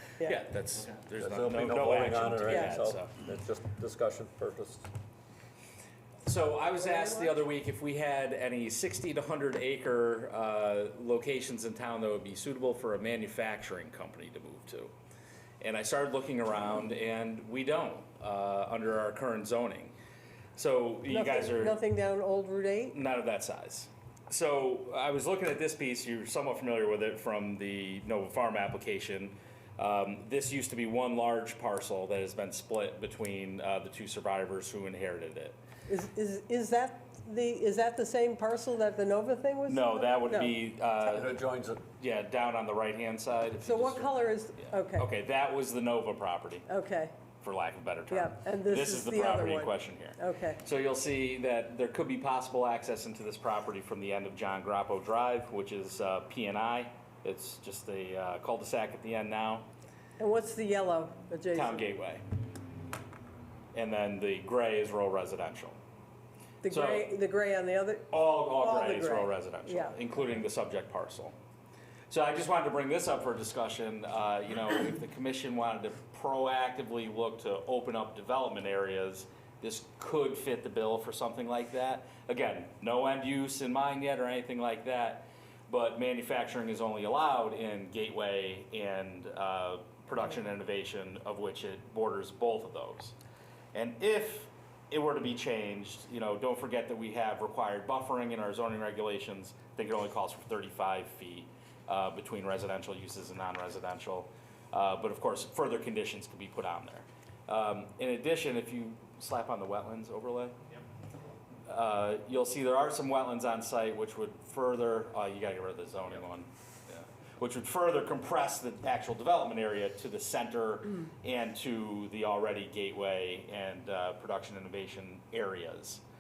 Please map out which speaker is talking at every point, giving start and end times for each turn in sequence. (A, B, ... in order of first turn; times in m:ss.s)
0:00.2-0:03.2 A
0:01.2-0:04.9 B
0:02.4-0:02.8 C
0:06.2-0:14.9 A
0:06.8-0:07.4 C
0:15.6-0:19.9 A
0:20.6-0:21.8 A
0:21.1-0:23.0 C
0:22.9-0:35.6 A
0:35.9-0:40.6 C
0:39.7-0:41.4 A
0:41.1-0:41.8 B
0:42.0-0:46.6 A
0:43.6-0:45.1 C
0:46.7-0:47.1 C
0:47.4-0:59.7 A
0:48.1-0:50.6 C
1:00.2-1:01.9 C
1:01.5-1:02.2 A
1:03.7-1:05.8 A
1:06.6-1:10.0 C
1:06.6-1:07.1 A
1:08.1-1:11.3 A
1:12.1-1:33.2 A
1:33.7-1:50.6 A
1:51.7-2:06.0 A